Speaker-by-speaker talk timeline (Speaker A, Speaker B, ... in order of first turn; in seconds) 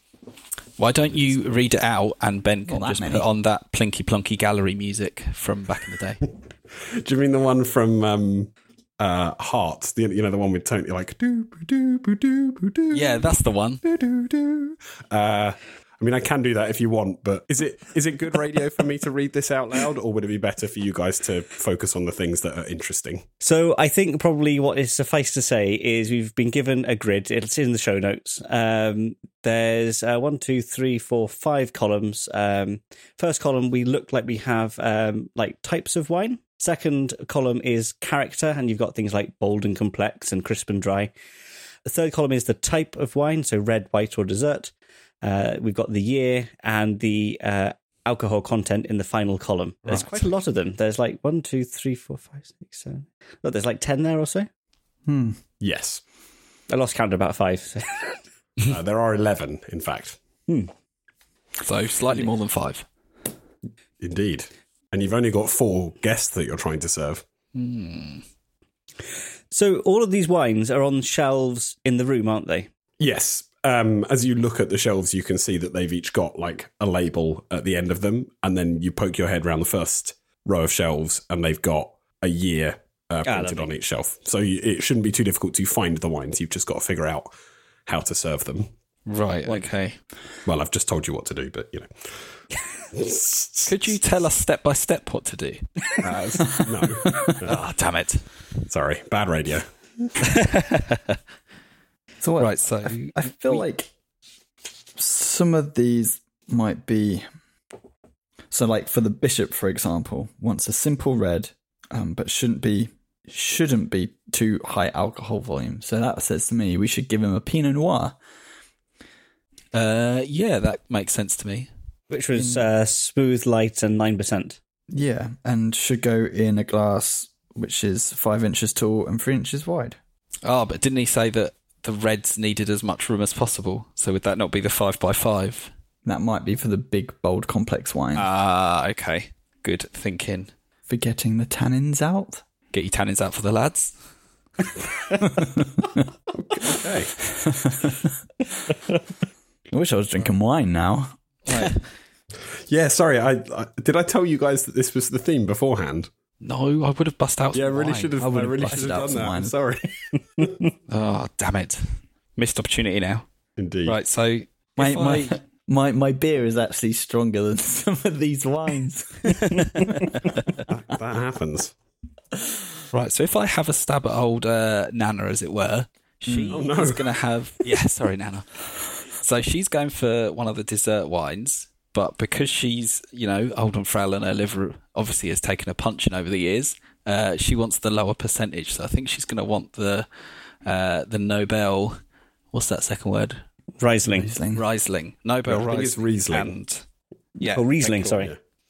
Speaker A: 0.8-6.2, 12.9-13.8, 61.6-62.9, 67.5-68.2, 89.1-90.0, 93.7-95.6, 97.3-98.2, 102.4-103.6, 119.7-121.7, 130.4-135.7, 138.2-140.5, 142.7-143.9, 156.4-158.2, 160.9-161.8, 162.4-163.3, 163.9-165.3, 172.9-190.1, 190.7-192.0, 192.5-193.4, 194.6-196.8, 197.4-198.3
Speaker B: 2.7-3.3, 55.1-55.4, 97.0-97.3, 102.2-103.9, 105.0-107.2, 108.5-118.2, 122.4-122.7, 124.9-130.0, 136.1-138.3, 140.9-142.4, 145.2-145.8, 147.4-148.1, 149.7-151.8, 158.2-159.6, 164.8-170.0, 176.3-176.6, 194.1-194.6
Speaker C: 6.8-13.3, 13.8-23.2, 55.6-56.0, 58.6-60.2, 64.0-67.2, 73.0-87.3, 87.9-88.7, 90.5-92.3, 92.9-94.0, 96.0-97.6, 98.7-99.7, 146.4-147.1, 152.7-156.1, 157.5-160.5, 163.6-164.0, 170.7-171.7, 176.5-177.1, 195.5-196.6
Speaker D: 23.4-41.1, 41.9-54.5, 56.7-58.2, 69.5-72.7, 83.2-83.7, 122.1-124.6, 193.8-194.3, 197.4-198.3